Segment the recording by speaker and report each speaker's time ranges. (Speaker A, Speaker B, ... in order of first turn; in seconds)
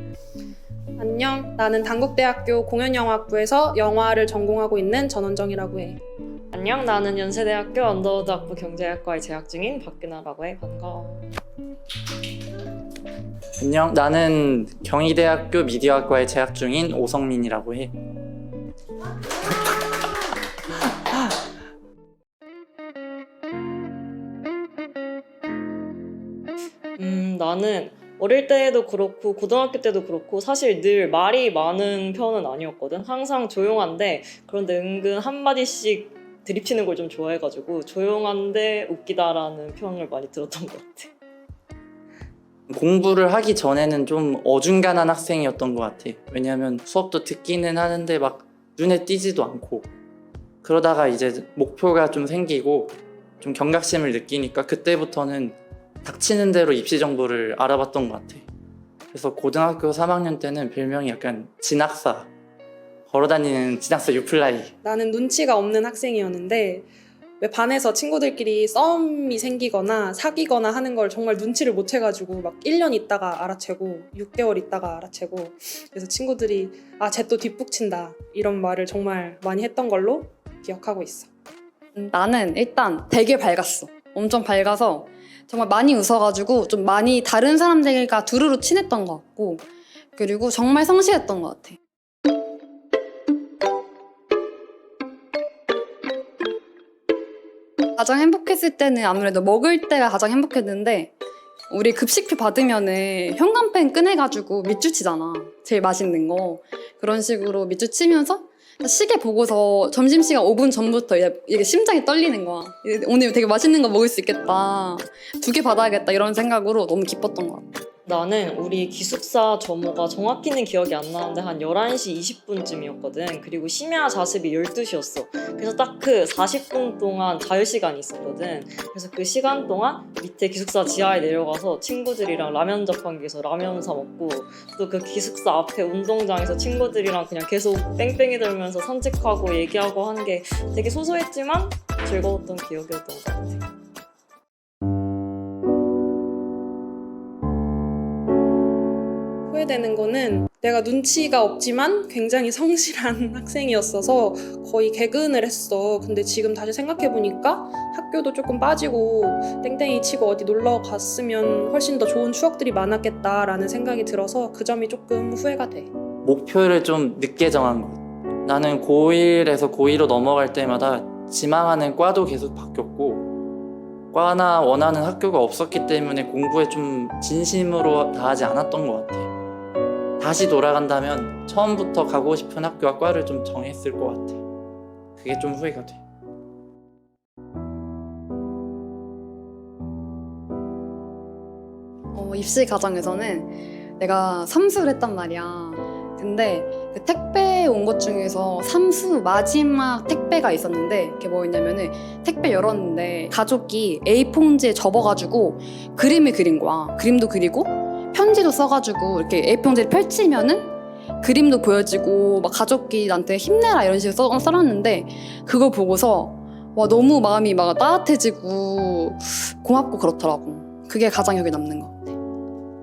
Speaker A: 1.0-6.0, 64.8-66.9, 67.4-81.3, 149.5-165.9
Speaker B: 6.5-11.3, 27.0-41.1, 118.1-143.6
Speaker C: 13.6-17.9, 42.7-49.9, 50.6-58.5, 59.1-62.3, 63.1-64.7, 166.2-173.3, 174.1-179.3, 180.2-184.4, 185.2-186.0
Speaker D: 82.0-89.6, 90.2-91.8, 98.0-101.1, 101.7-117.6, 192.1-222.1